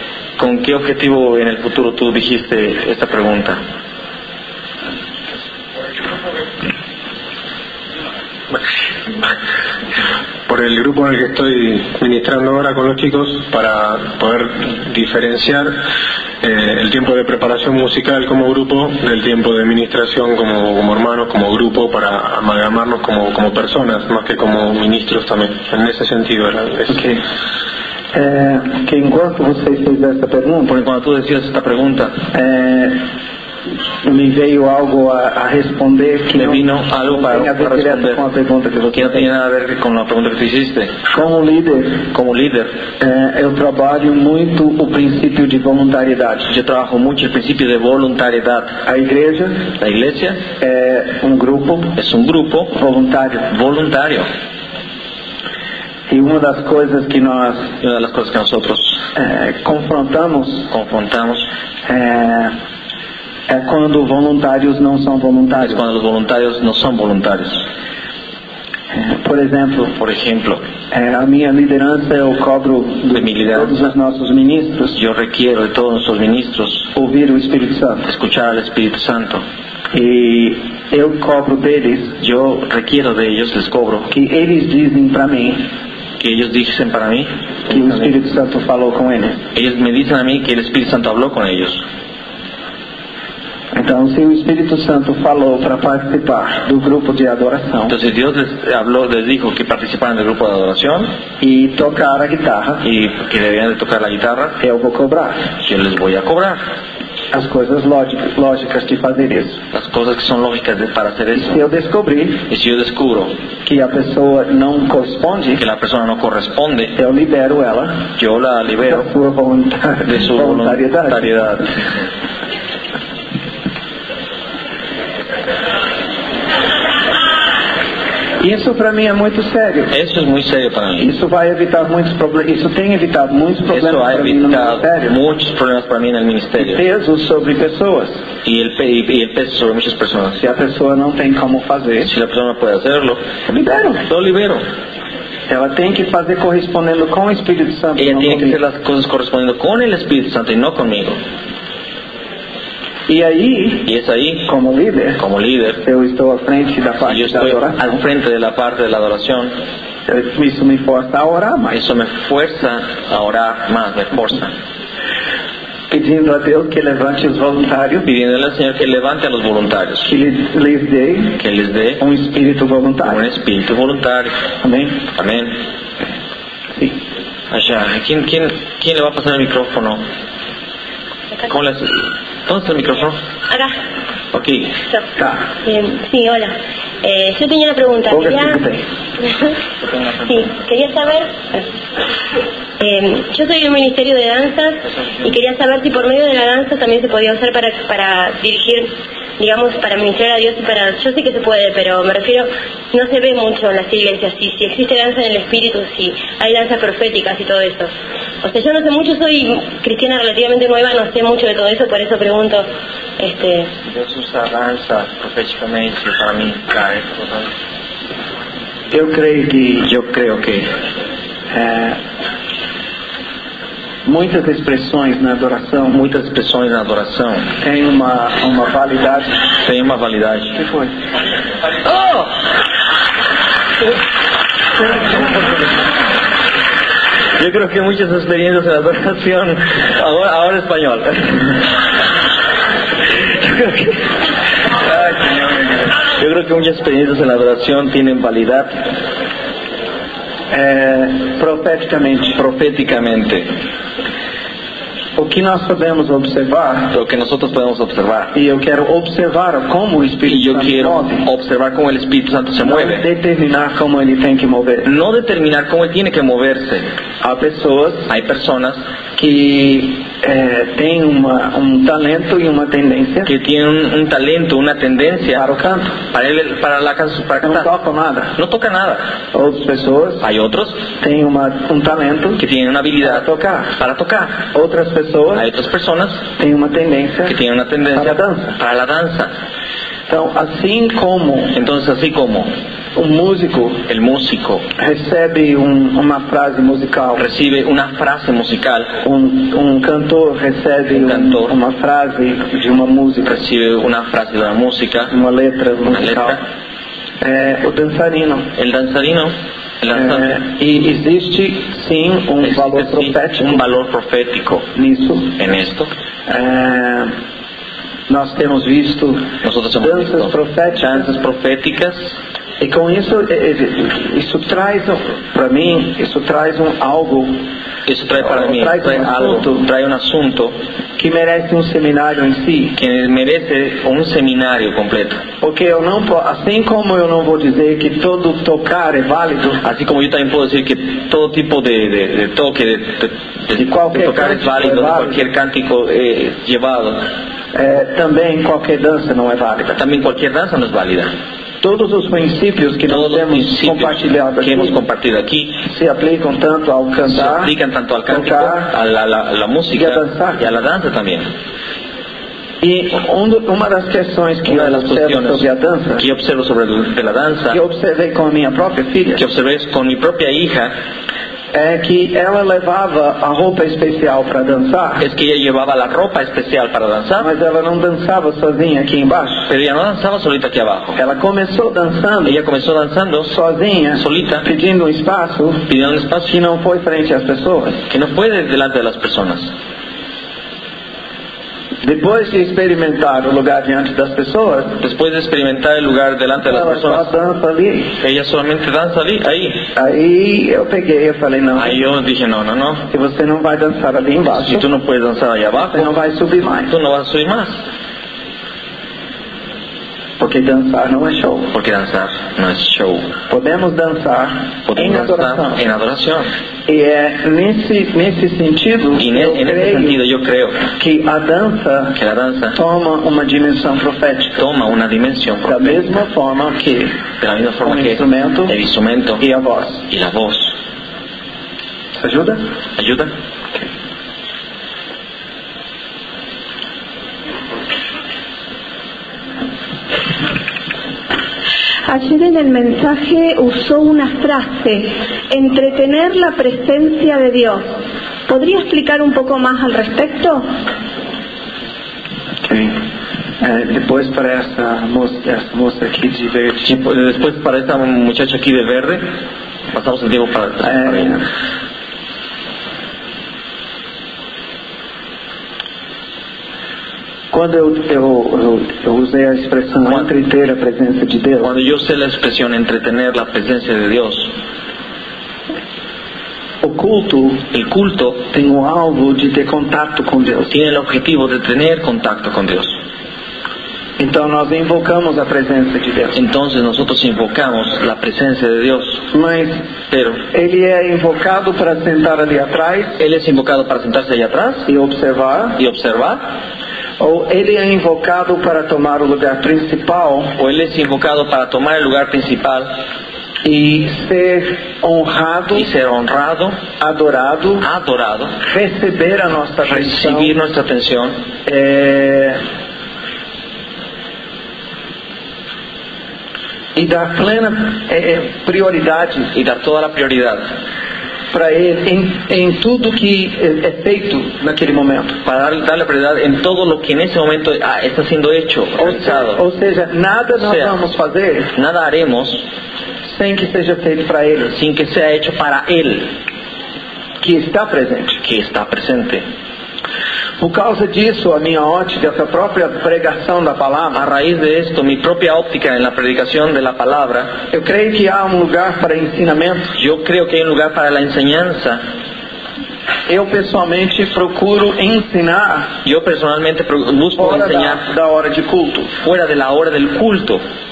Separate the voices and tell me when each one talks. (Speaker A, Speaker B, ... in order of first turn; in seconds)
Speaker A: 0.4-3.6, 30.7-32.2, 36.3-38.2, 38.9-41.0, 42.1-42.7, 46.5-48.8, 49.8-50.4, 52.0-52.7, 53.5-54.3, 57.8-59.0, 60.7-61.5, 65.6-67.7, 70.0-70.6, 73.1-73.9, 74.9-76.9, 78.1-79.5, 82.2-84.1, 86.2-88.1, 89.5-91.8, 97.9-101.1, 102.8-104.6, 105.6-106.6, 109.7-111.7, 112.5-113.3, 115.6-117.0, 118.2-119.1, 120.0-121.9, 129.9-131.1, 133.7-136.8, 138.4-140.4, 142.0-143.2, 144.1-144.6, 148.0-151.2, 153.8-154.5, 155.2-155.8, 157.0-159.5, 161.7-164.5, 168.0-170.1, 171.4-172.0, 173.0-174.3, 175.1-175.6, 177.5-180.0, 181.5-183.2, 184.3-184.7, 189.8-190.6, 195.0-195.3, 213.8-217.5, 219.8-220.7, 225.9-227.5, 229.6-230.6, 231.8-232.4, 234.8-235.4, 237.4-241.6, 245.0-245.4, 246.0-248.9, 252.4-253.5, 256.9-258.4, 260.3-263.1, 264.9-266.9, 268.1-268.8, 273.2-275.4, 276.1-277.7, 278.4-279.1, 280.2-280.8, 282.4-284.5, 285.3-286.2, 287.3-289.3, 291.5-292.5, 293.9-294.7, 297.2-299.0, 300.9-301.5, 303.2-305.1, 305.9-306.4, 308.6-310.3, 312.4-314.7, 315.4-315.9, 319.4-322.2, 327.9-330.6, 332.8-335.2, 339.6-347.1, 349.8-351.1, 352.9-355.7, 357.1-361.3, 364.5-365.4, 366.0-367.6, 369.2-370.7, 375.0-377.3, 379.5-381.0, 382.2-383.3, 383.9-384.5, 385.7-386.3, 387.9-389.5, 394.8-397.1, 398.0-399.7, 401.6-402.9, 404.3-405.9, 406.7-407.6, 411.5-413.1, 414.7-416.3, 419.0-420.6, 422.0-422.6, 424.4-426.0, 427.2-429.2, 429.9-430.6, 432.8-433.1, 456.6-459.1, 459.7-461.2, 471.4-474.3, 477.5-478.2, 480.5-482.8, 486.1-489.1, 489.9-490.2, 493.0-494.7, 495.6-496.2, 500.4-502.8, 505.5-506.6, 507.6-508.4, 509.7-511.2, 519.3-520.5, 525.2-529.4, 530.4-530.8, 531.5-532.5, 534.5-536.1, 538.2-539.2, 543.9-547.4, 549.8-551.8, 555.8-557.8, 559.0-560.4
Speaker B: 10.5-15.8, 16.4-27.0
Speaker C: 26.9-27.2, 28.1-30.7, 32.3-33.0, 34.0-39.3, 41.1-42.0, 43.0-46.5, 48.9-49.6, 50.6-52.0, 52.7-53.5, 56.1-57.7, 59.1-60.7, 61.9-62.5, 63.5-65.8, 68.9-70.0, 70.9-75.0, 77.0-78.1, 79.9-82.2, 84.1-85.7, 87.7-89.4, 93.7-97.9, 101.4-102.8, 104.6-105.5, 107.3-109.6, 111.3-112.4, 113.7-115.6, 117.0-118.0, 118.8-121.5, 128.4-129.9, 131.0-135.2, 136.6-138.2, 140.4-142.1, 143.5-144.0, 145.5-148.6, 153.1-153.9, 154.4-155.2, 155.8-158.0, 160.1-161.8, 165.9-168.1, 170.1-171.4, 172.0-173.2, 174.6-175.0, 188.1-188.8, 218.9-219.9, 221.5-222.0, 224.1-226.0, 227.6-229.3, 230.6-230.9, 250.5-252.4, 255.2-256.9, 258.3-261.3, 262.6-264.9, 267.2-268.1, 269.2-273.3, 275.3-276.0, 277.4-278.4, 279.3-280.2, 281.0-282.4, 283.0-283.7, 284.5-285.4, 286.4-287.4, 287.9-288.6, 290.1-291.6, 292.9-293.8, 294.8-297.3, 299.0-303.4, 305.1-306.4, 307.2-308.5, 309.9-313.6, 314.8-315.4, 316.3-317.1, 318.1-319.3, 319.8-321.1, 322.6-327.4, 328.2-329.7, 331.0-332.8, 335.4-339.6, 343.5-345.3, 347.5-349.8, 351.6-354.8, 355.7-357.5, 358.1-358.7, 359.8-360.4, 362.6-366.0, 367.5-369.2, 371.5-375.1, 377.2-379.5, 381.0-382.4, 383.3-385.6, 386.3-387.8, 391.8-394.8, 396.4-398.0, 399.8-401.8, 402.9-404.7, 405.7-406.7, 410.2-411.5, 413.3-415.6, 416.7-420.0, 420.8-422.0, 422.6-424.4, 425.4-427.0, 427.6-428.6, 429.2-429.8, 432.0-432.4, 452.4-452.8, 453.4-456.7, 460.6-461.2, 467.3-471.5, 476.6-477.4, 478.3-480.5, 484.0-486.2, 489.1-489.6, 490.3-493.0, 494.7-495.6, 497.0-500.3, 503.4-505.7, 506.8-507.7, 508.4-510.4, 511.5-512.4, 516.8-519.3, 521.3-525.2, 528.8-531.5, 533.1-534.5, 537.2-538.2, 540.4-544.1, 547.5-549.7, 553.1-555.7, 557.2-558.9
Speaker D: 185.7-188.6, 190.3-191.6, 192.8-207.9, 208.4-212.7, 213.2-213.7
Speaker E: 441.9-447.7, 448.3-450.5